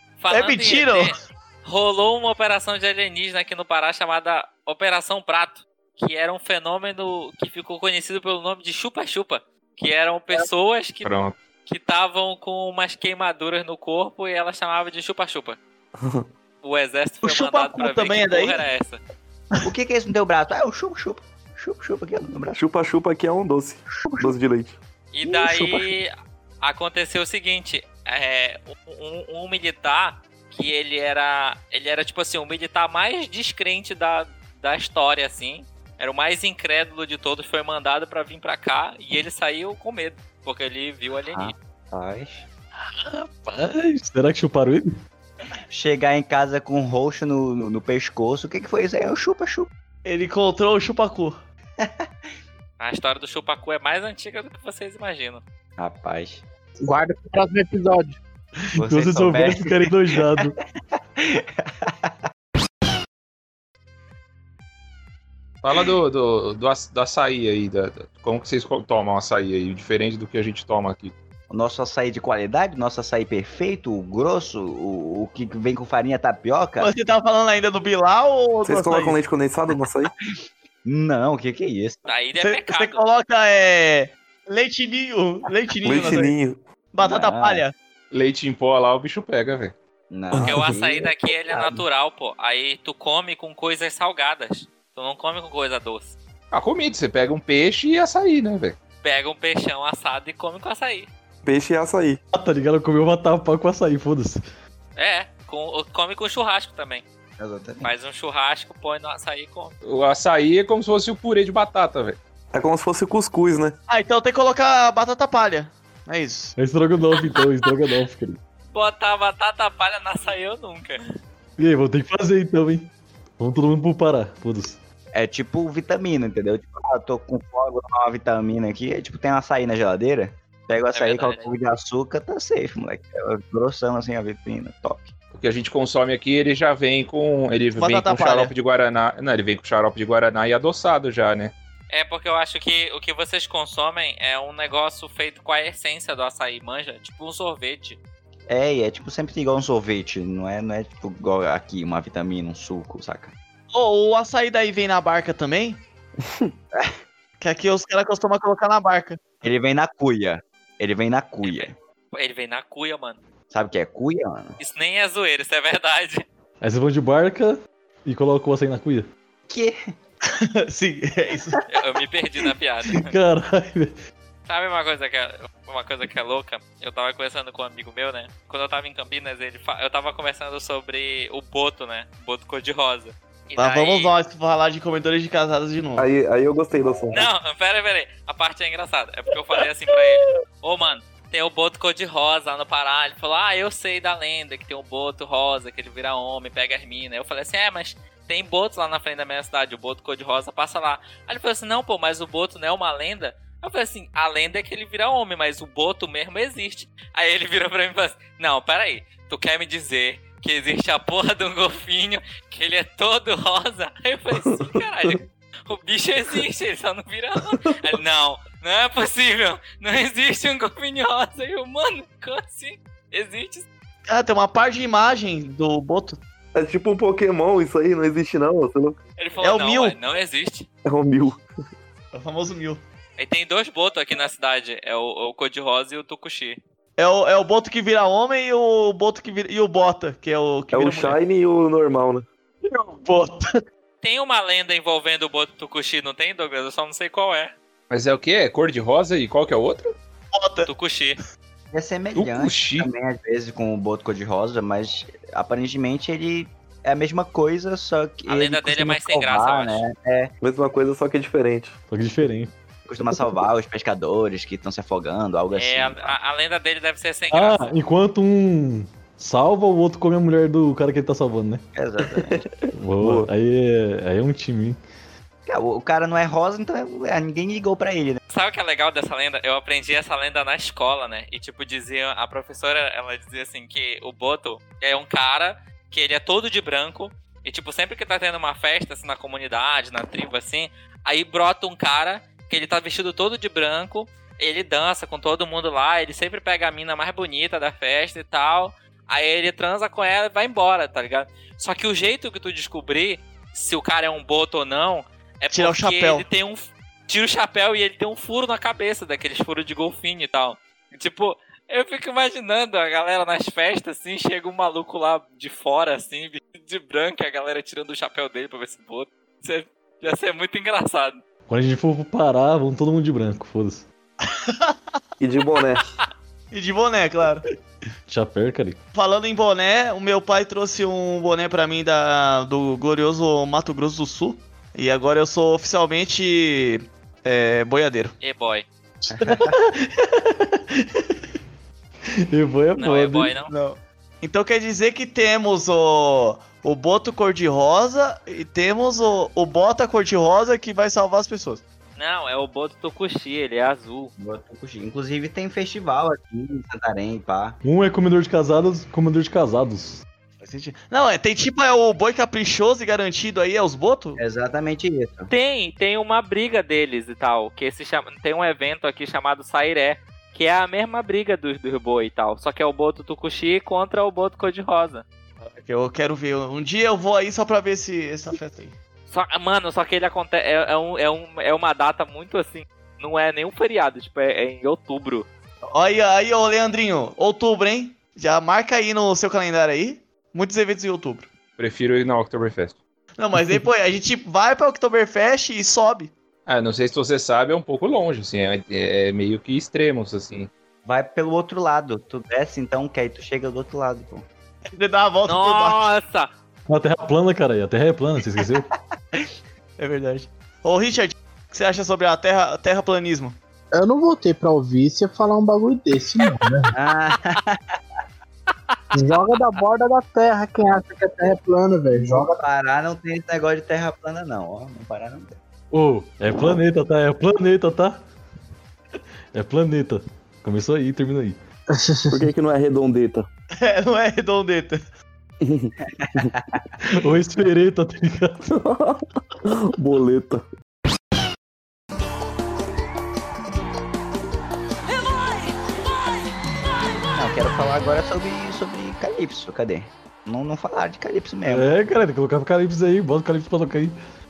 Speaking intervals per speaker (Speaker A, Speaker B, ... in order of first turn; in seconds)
Speaker A: 0.2-15.6, 16.6-19.0, 25.1-41.5, 52.8-55.4, 82.1-83.0, 90.4-96.2, 99.0-101.1, 105.0-107.0, 107.8-109.8, 117.2-117.7, 118.7-121.0, 130.9-131.5, 141.9-148.0, 161.4-163.2, 164.6-166.2, 171.7-173.1, 174.5-184.1, 187.1-223.7, 229.2-230.7, 233.2-236.6, 244.0-247.5, 250.7-251.2, 258.3-259.8, 265.5-267.7, 278.3-321.2, 338.2-338.7, 342.8-343.5, 352.0-354.1, 365.3-375.0, 379.1-385.3, 405.3-406.3, 418.7-419.4
Speaker B: 0.3-1.1, 17.2-18.6, 50.0-51.4, 76.8-79.2, 82.4-86.3, 86.9-87.7, 113.9-116.6, 137.8-138.5, 153.7-155.8, 157.4-159.2, 170.3-171.6, 183.6-186.1, 224.1-226.2, 229.4-230.0, 232.1-232.8, 237.0-241.2, 242.7-243.5, 250.3-250.7, 305.5-306.2, 324.2-324.8, 326.5-327.4, 328.9-338.2, 343.5-351.6, 360.4-364.2, 375.4-378.8, 385.7-391.3, 393.2-396.1, 404.7-405.8, 409.8-413.4, 433.6-434.8
Speaker C: 11.0-11.3, 65.6-71.1, 88.1-89.7, 96.5-98.8, 109.8-112.2, 135.3-141.5, 247.9-249.9, 252.2-252.9, 391.6-392.8, 396.5-400.5
Speaker D: 16.0-16.2, 22.6-25.8, 78.7-80.1, 85.8-86.6, 90.3-90.7, 101.4-102.2, 112.5-113.8, 186.0-187.2, 214.4-215.1, 226.6-229.0, 230.8-231.4, 240.7-242.2, 260.4-261.8, 273.0-273.3, 325.2-325.8, 432.1-433.3, 435.4-435.7, 438.6-440.4
Speaker E: 19.6-22.6, 24.0-24.3, 41.3-42.5, 45.7-49.7, 51.8-52.1, 55.8-56.4, 58.8-60.4, 61.2-62.1, 71.5-76.9, 80.8-82.0, 87.0-87.7, 90.1-91.8, 107.4-107.9, 125.1-135.1, 148.5-153.3, 159.4-161.7, 163.5-164.6, 169.5-169.8, 251.7-260.3, 262.9-266.2, 271.8-272.5, 275.5-278.2, 339.1-339.6, 354.2-357.6, 364.2-365.3, 400.9-404.2, 416.7-417.8, 422.0-425.4, 435.9-436.7, 447.1-451.8
Speaker F: 42.8-45.0, 58.8-60.6, 102.3-104.4, 116.6-118.4, 121.6-124.8, 166.6-169.1, 172.9-173.9, 261.9-262.5, 267.3-271.6, 272.7-274.8, 321.5-323.9, 328.1-328.8, 339.1-341.1, 342.3-343.3, 357.6-360.0, 406.7-408.7, 425.7-428.0, 429.3-431.4, 436.9-438.5, 451.5-454.0
Speaker G: 56.8-58.2, 413.7-416.8, 418.9-422.4, 431.8-432.3